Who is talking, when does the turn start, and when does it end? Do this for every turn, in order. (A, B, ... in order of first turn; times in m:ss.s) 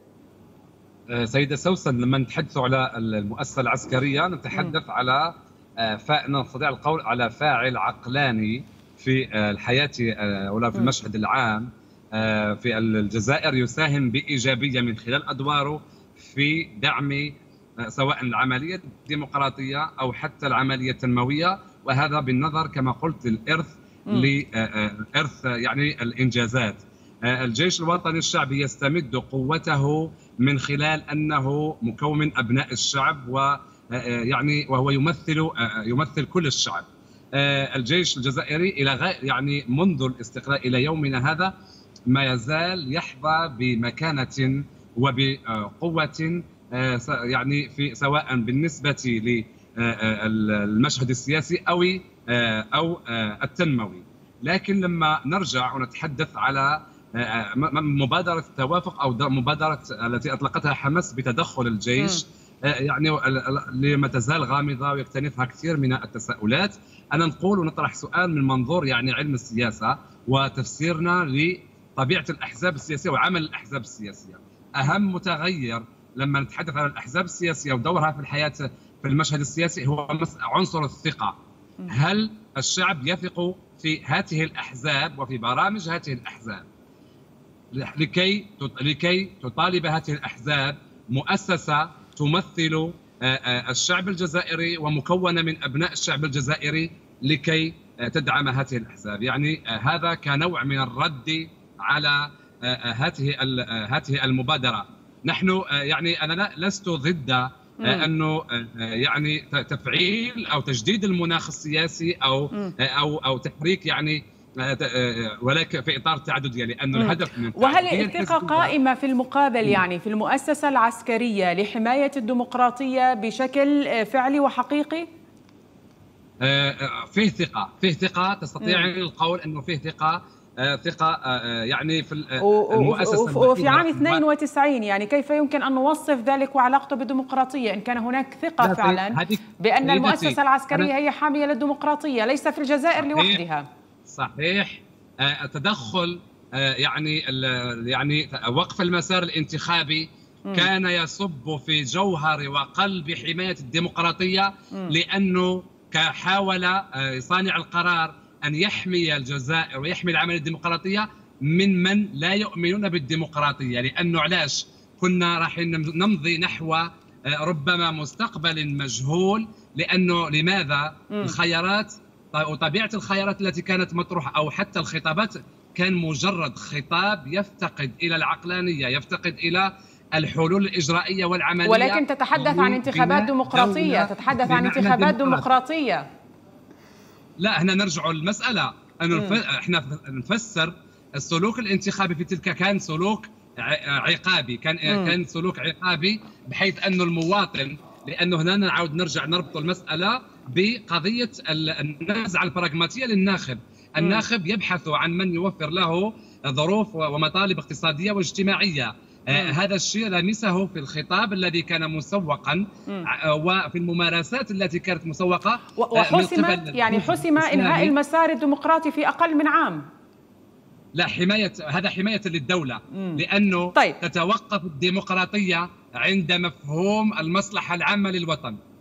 0:01.1-0:41.5 A
0:42.1-1:21.4 A
1:02.0-1:02.2 B
1:21.9-1:26.6 A
1:27.7-1:58.7 A
1:47.8-1:48.1 B
1:57.0-2:05.0 B
2:06.4-2:14.2 A
2:08.6-2:08.9 B
2:12.4-2:23.7 B
2:18.6-2:20.9 A
2:23.0-2:23.4 A
2:24.1-3:05.4 A
2:51.1-2:51.4 B
3:01.6-3:06.0 B
3:07.4-3:37.9 A
3:09.1-3:09.4 B
3:14.9-3:15.1 B
3:35.8-3:39.8 B
3:40.9-3:48.6 A
3:43.0-3:43.2 B